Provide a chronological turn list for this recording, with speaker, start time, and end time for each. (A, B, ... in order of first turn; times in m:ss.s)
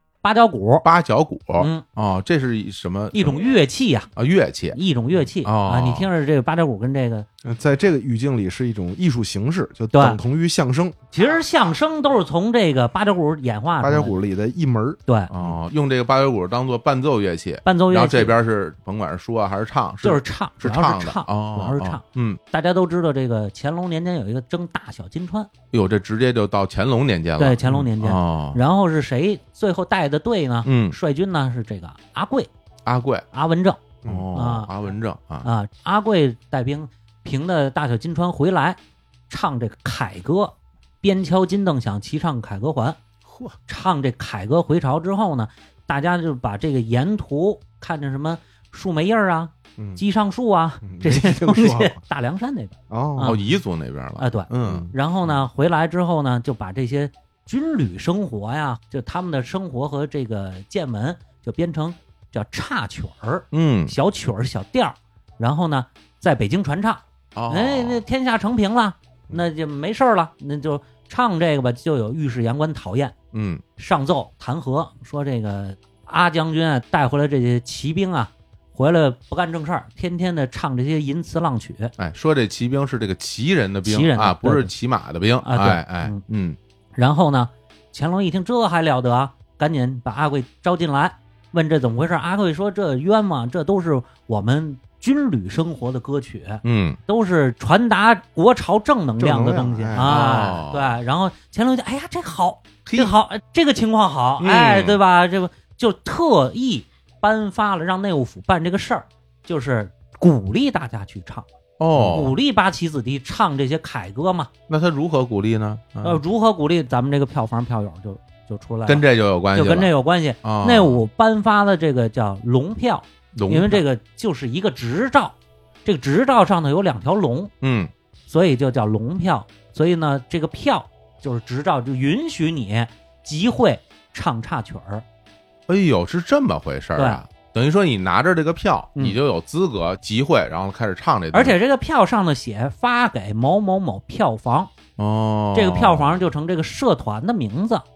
0:00.2-0:00.9 A
0:00.8-0:03.4 B
0:01.6-0:01.8 A
0:03.1-0:04.1 A
0:04.2-0:04.8 B
0:04.7-0:07.3 A
0:05.4-0:06.1 B
0:07.4-0:11.1 C
0:09.9-0:10.2 A
0:11.1-0:14.1 A
0:13.8-0:15.6 C
0:15.3-0:22.4 B
0:17.6-0:18.4 A
0:20.0-0:25.5 A
0:25.7-0:28.6 B
0:27.4-0:32.5 A
0:30.6-0:31.0 B
0:32.8-0:33.2 B
0:33.3-0:34.7 A
0:34.0-0:34.3 C
0:34.0-0:35.5 B
0:35.4-0:38.8 A
0:39.3-0:43.0 A
0:43.3-0:43.6 B
0:43.7-0:53.4 A
0:49.8-0:50.0 C
0:50.8-0:52.0 C
0:52.9-0:53.4 C
0:53.2-0:54.9 B
0:54.2-1:13.2 A
0:54.7-0:54.9 C
1:03.5-1:04.0 B
1:07.4-1:08.0 B
1:13.3-1:13.6 B
1:13.8-1:21.9 A
1:22.0-1:26.6 B
1:23.9-1:24.7 A
1:25.4-1:26.2 A
1:27.0-1:54.5 A
1:36.6-1:37.0 B
1:39.2-1:40.2 C
1:40.0-1:41.0 B
1:42.9-1:43.1 B
1:44.4-1:45.0 B
1:51.8-1:52.4 B
1:54.7-1:56.2 B
1:56.0-2:05.3 A
1:58.9-2:01.0 B
2:03.4-2:03.8 B
2:05.8-2:07.5 A
2:07.6-2:07.9 B
2:08.3-2:15.0 A
2:15.7-2:21.6 B
2:17.0-2:17.2 A
2:21.3-2:24.7 A
2:25.0-2:26.2 B
2:25.6-2:27.8 A